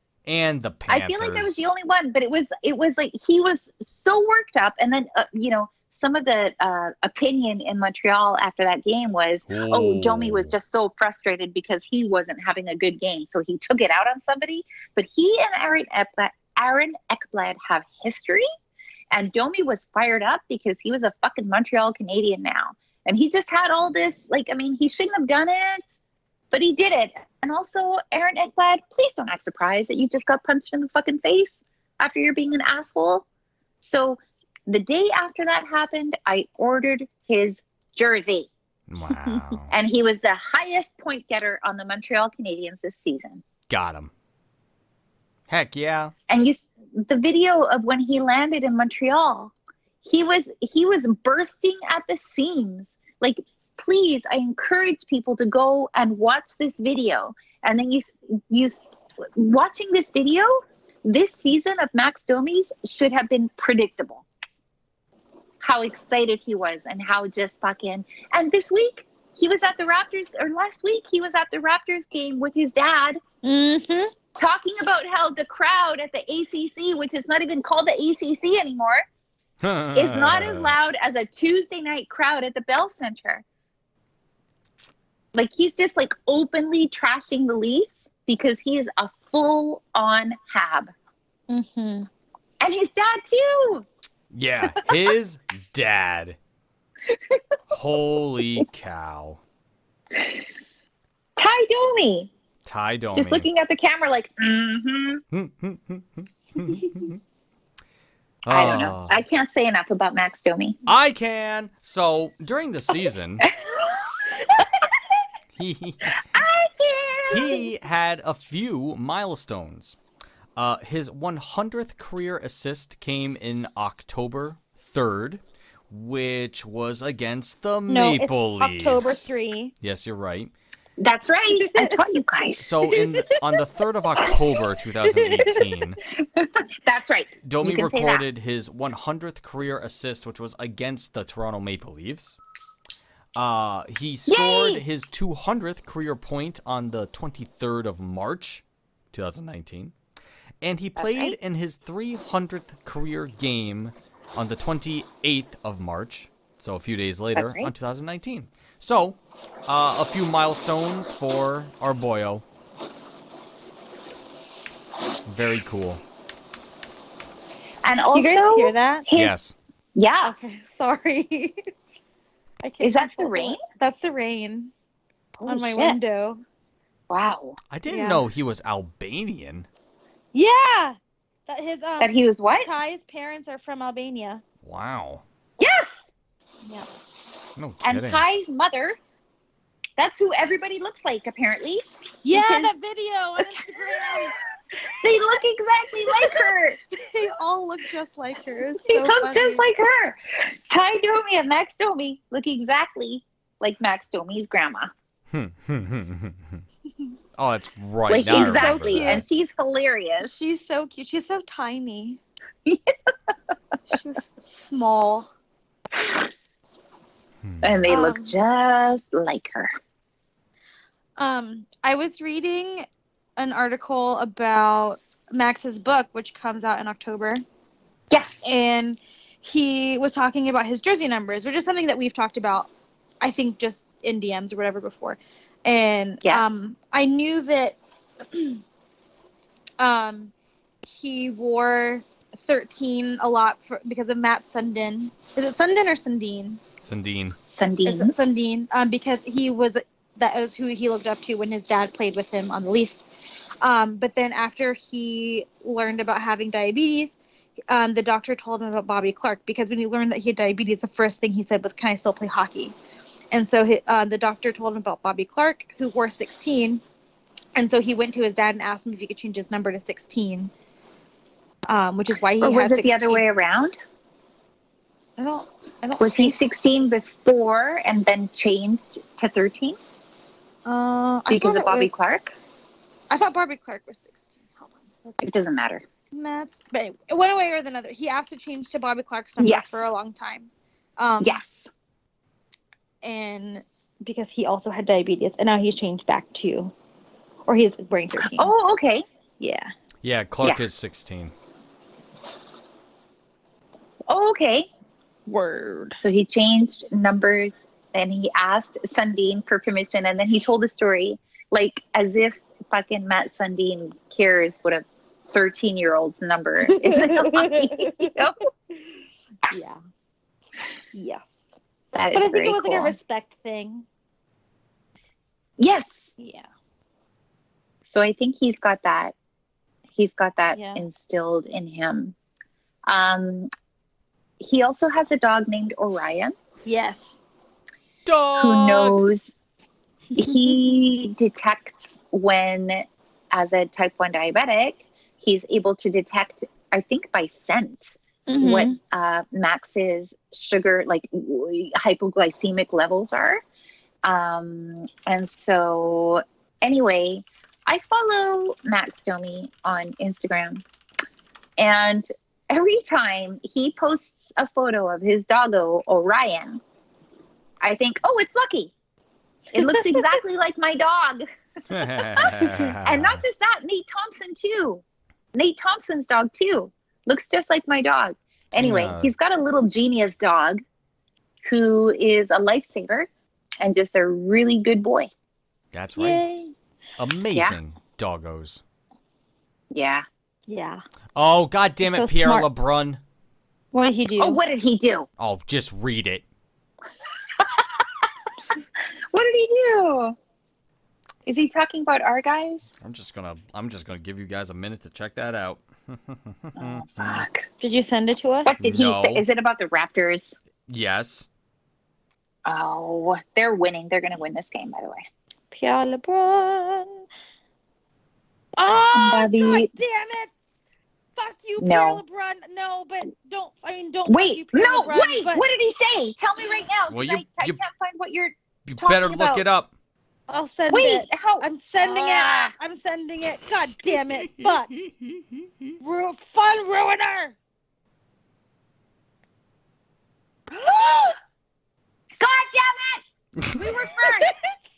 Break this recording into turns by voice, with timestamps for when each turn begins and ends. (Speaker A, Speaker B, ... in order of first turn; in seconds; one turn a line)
Speaker A: 0.2-1.6
Speaker B: 0.9-18.4
Speaker A: 9.5-10.5
Speaker B: 19.1-25.9
Speaker B: 26.5-33.2
Speaker B: 33.8-38.5
Speaker A: 38.9-39.7
Speaker B: 39.7-43.4
Speaker A: 43.7-44.1
Speaker A: 45.5-46.1
Speaker B: 46.3-64.2
Speaker B: 65.6-73.2
Speaker C: 73.4-74.1
Speaker B: 74.3-79.0
Speaker A: 79.6-80.7
Speaker B: 79.9-83.4
Speaker B: 85.3-90.9
Speaker C: 91.5-92.1
Speaker B: 92.6-93.9
Speaker A: 94.3-96.4
Speaker B: 97.1-97.4
Speaker A: 97.7-99.4
Speaker B: 101.3-102.3
Speaker A: 102.7-103.5
Speaker B: 103.1-105.2
Speaker A: 105.3-107.2
Speaker A: 108.4-109.2
Speaker B: 108.5-110.8
Speaker A: 110.8-113.5
Speaker B: 113.4-114.9
Speaker A: 115.5-116.2
Speaker B: 116.2-117.7
Speaker A: 117.3-120.0
Speaker A: 120.5-129.3
Speaker C: 127.9-129.7
Speaker A: 129.8-130.5
Speaker B: 131.0-133.0
Speaker C: 131.6-132.0
Speaker A: 132.6-136.0
Speaker C: 135.2-135.6
Speaker B: 136.3-138.2
Speaker A: 137.4-142.4
Speaker A: 143.3-149.9
Speaker B: 144.3-144.8
Speaker A: 150.6-162.4
Speaker B: 151.0-151.4
Speaker B: 157.3-157.7
Speaker A: 165.2-166.0
Speaker B: 167.8-169.3
Speaker C: 168.1-169.1
Speaker A: 169.1-169.5
Speaker B: 169.9-170.3
Speaker C: 170.2-171.6
Speaker C: 172.6-174.7
Speaker B: 172.8-173.6
Speaker B: 175.3-176.0
Speaker C: 175.5-176.4
Speaker B: 177.1-177.6
Speaker A: 177.7-179.7
Speaker C: 177.9-178.2
Speaker C: 180.3-184.4
Speaker B: 182.0-182.7
Speaker A: 184.6-185.2
Speaker B: 185.6-186.1
Speaker A: 187.6-188.2
Speaker B: 187.8-189.0
Speaker B: 190.0-192.7
Speaker C: 192.2-194.3
Speaker B: 193.4-194.3
Speaker B: 195.0-196.8
Speaker C: 196.2-199.7
Speaker B: 198.9-204.9
Speaker A: 205.3-206.6
Speaker A: 207.4-209.2
Speaker B: 208.1-210.3
Speaker C: 208.2-209.2
Speaker C: 210.2-212.2
Speaker B: 212.7-213.3
Speaker C: 213.9-215.3
Speaker B: 216.0-216.2
Speaker A: 217.4-217.9
Speaker B: 217.6-219.7
Speaker C: 217.9-218.3
Speaker C: 221.2-227.4
Speaker B: 228.1-228.5
Speaker C: 228.4-232.7
Speaker C: 233.2-237.8
Speaker C: 238.3-238.6
Speaker C: 239.8-240.3
Speaker C: 240.8-246.6
Speaker A: 246.8-247.4
Speaker B: 247.5-248.1
Speaker C: 247.8-253.1
Speaker C: 253.6-257.2
Speaker C: 257.7-262.7
Speaker C: 263.3-266.8
Speaker C: 267.5-270.5
Speaker C: 271.7-273.2
Speaker B: 272.4-273.8
Speaker C: 275.2-276.4
Speaker B: 276.0-279.8
Speaker C: 280.6-281.9
Speaker B: 281.3-282.4
Speaker C: 283.1-285.2
Speaker B: 285.2-285.9
Speaker C: 286.1-291.4
Speaker B: 289.4-289.9
Speaker B: 291.2-291.7
Speaker C: 293.0-296.7
Speaker C: 297.5-298.5
Speaker B: 298.1-299.0
Speaker C: 299.4-299.7
Speaker A: 300.0-301.3
Speaker B: 304.1-304.7
Speaker C: 305.3-306.0
Speaker B: 306.0-318.4
Speaker C: 316.6-318.1
Speaker C: 319.4-319.8
Speaker C: 320.9-321.6
Speaker B: 321.9-323.0
Speaker C: 322.1-323.9
Speaker B: 325.6-326.1
Speaker C: 326.2-326.4
Speaker B: 327.8-329.1
Speaker B: 329.9-332.1
Speaker C: 330.5-330.8
Speaker B: 332.9-333.5
Speaker B: 334.4-336.3
Speaker C: 336.6-337.3
Speaker A: 338.1-339.0
Speaker B: 338.4-339.3
Speaker B: 340.1-353.4
Speaker C: 348.3-348.8
Speaker B: 354.0-360.6
Speaker B: 361.6-366.6
Speaker B: 367.6-368.7
Speaker B: 369.5-374.8
Speaker C: 369.8-370.0
Speaker A: 371.7-373.2
Speaker B: 375.3-380.6
Speaker A: 378.5-379.1
Speaker B: 381.4-383.1
Speaker B: 383.6-385.1
Speaker A: 385.7-386.2
Speaker C: 386.0-386.5
Speaker A: 387.0-388.6
Speaker B: 389.7-390.0
Speaker C: 390.5-390.8
Speaker A: 391.1-393.0
Speaker C: 391.8-392.5
Speaker C: 393.7-394.4
Speaker B: 394.2-395.1
Speaker A: 395.2-396.2
Speaker B: 397.4-397.8
Speaker B: 399.1-400.1
Speaker B: 401.2-402.7
Speaker A: 402.8-407.2
Speaker B: 406.6-407.5
Speaker C: 407.6-408.5
Speaker B: 408.4-410.3
Speaker A: 408.6-409.2
Speaker A: 410.7-411.3
Speaker B: 412.4-415.0
Speaker C: 415.5-417.0
Speaker C: 418.6-420.3
Speaker B: 418.9-419.7
Speaker C: 421.1-425.4
Speaker B: 421.6-422.0
Speaker B: 424.1-429.4
Speaker A: 426.9-427.6
Speaker A: 428.6-429.7
Speaker C: 430.3-434.7
Speaker B: 430.7-432.5
Speaker C: 435.8-437.4
Speaker B: 440.5-441.2
Speaker B: 442.2-443.0
Speaker B: 443.5-444.4
Speaker C: 443.6-444.4